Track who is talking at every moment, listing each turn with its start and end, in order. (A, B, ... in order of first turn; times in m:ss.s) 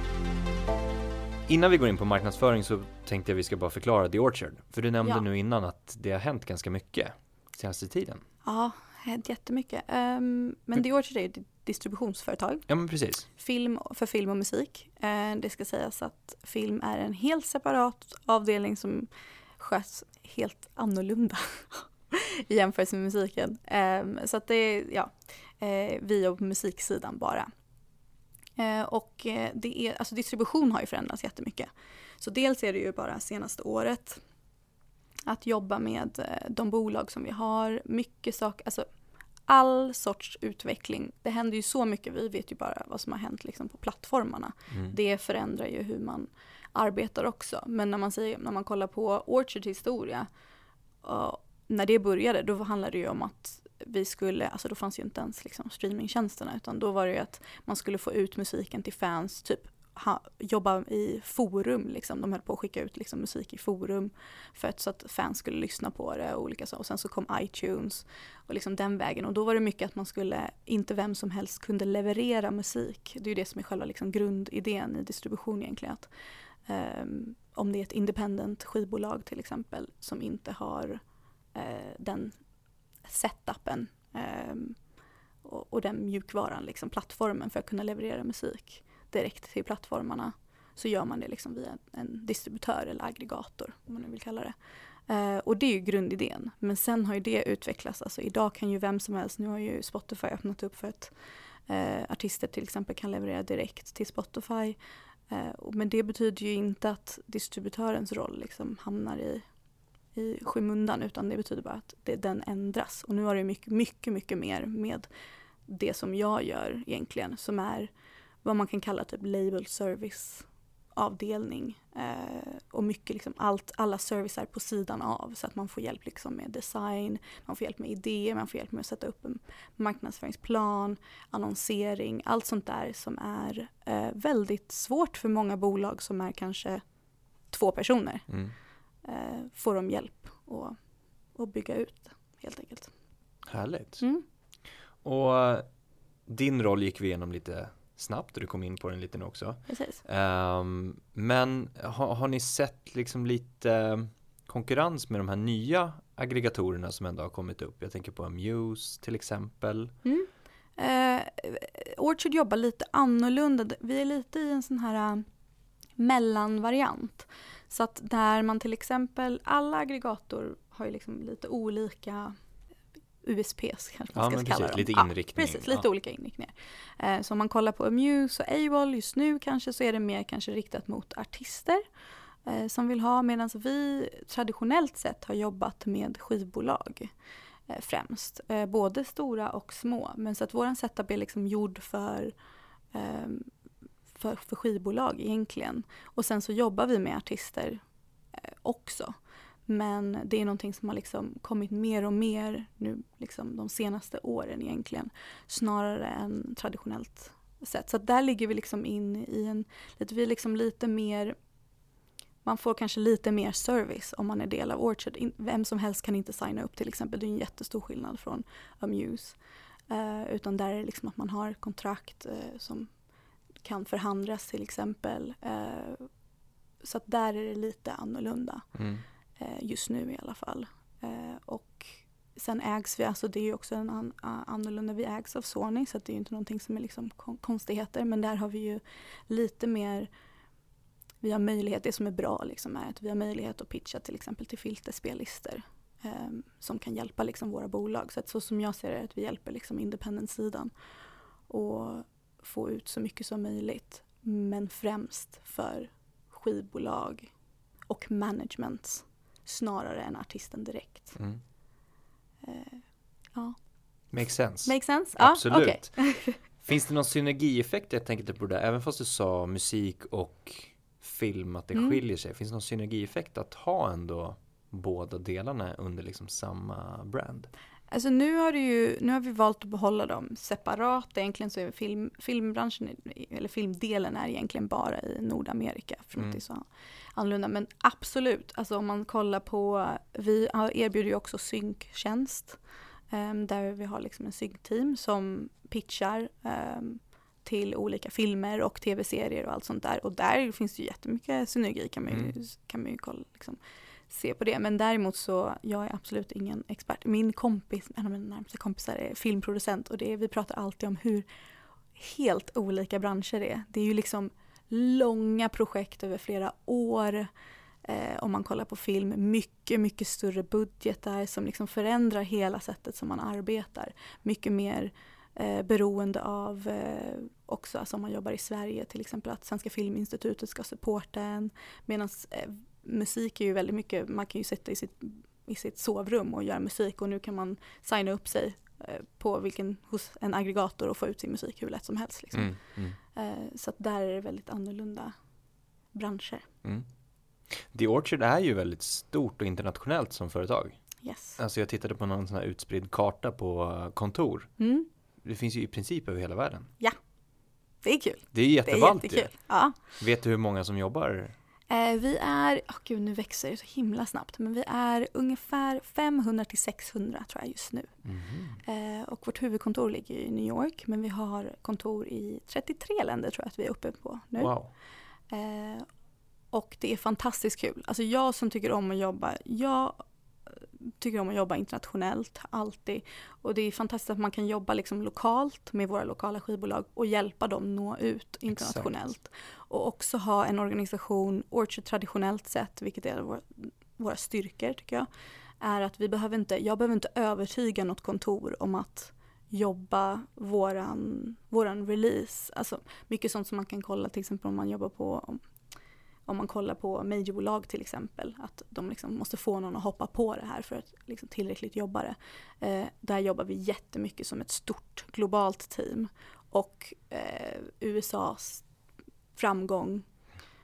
0:01.5-0:08.2 A
0:08.4-0:12.7 B
0:12.7-0:13.3 A
0:13.3-0:27.5 B
0:28.6-0:31.7 B
0:32.2-0:34.2 B
0:35.3-0:38.9 B
0:39.4-0:50.3 B
0:51.0-1:16.1 B
1:16.7-1:21.0 B
1:21.5-1:22.4 B
1:23.0-1:24.8 B
1:25.4-1:34.5 B
1:35.1-1:41.1 B
1:41.7-1:44.8 B
1:45.3-1:49.4 B
1:50.1-1:55.1 B
1:55.7-1:57.9 B
1:58.4-2:16.8 B
2:17.5-2:18.3 B
2:18.3-2:18.5 A
2:19.0-2:20.8 B
2:21.3-2:22.9 B
2:23.4-2:24.0 A
2:25.0-2:25.7 A
2:26.2-2:39.9 A
2:29.7-2:30.0 B
2:40.0-2:45.2 B
2:46.0-2:52.3 B
2:53.2-3:01.8 B
2:54.2-2:55.8 A
3:02.4-3:07.1 B
3:07.7-3:12.3 B
3:12.9-3:13.5 B
3:14.1-3:17.8 B
3:18.4-3:19.1 B
3:19.6-3:31.4 B
3:32.4-3:42.9 B
3:43.6-3:46.1 B
3:46.8-3:48.7 B
3:48.7-3:49.0 A
3:49.4-4:00.1 B
4:01.2-4:10.7 B
4:11.5-4:17.3 B
4:17.9-4:21.2 B
4:21.1-4:21.4 A
4:22.4-4:23.6 B
4:24.1-4:37.5 A
4:24.6-4:26.4 B
4:37.9-4:52.6 B
4:53.1-5:11.2 B
5:02.1-5:02.3 A
5:11.9-5:17.3 B
5:17.8-5:42.6 B
5:42.3-5:43.0 A
5:43.1-5:45.1 B
5:45.9-5:46.4 B
5:47.5-5:50.8 A
5:51.0-5:51.4 B
5:51.4-5:54.5 A
5:54.6-5:54.9 B
5:55.2-5:56.7 A
5:57.8-5:59.8 B
5:58.3-6:01.3 A
6:01.7-6:08.0 B
6:08.0-6:08.6 A
6:08.6-6:14.5 B
6:14.4-6:14.7 A
6:15.3-6:15.9 B
6:16.5-6:35.1 B
6:28.5-6:29.1 A
6:35.6-6:45.4 B
6:46.2-6:58.7 B
6:59.3-7:00.1 B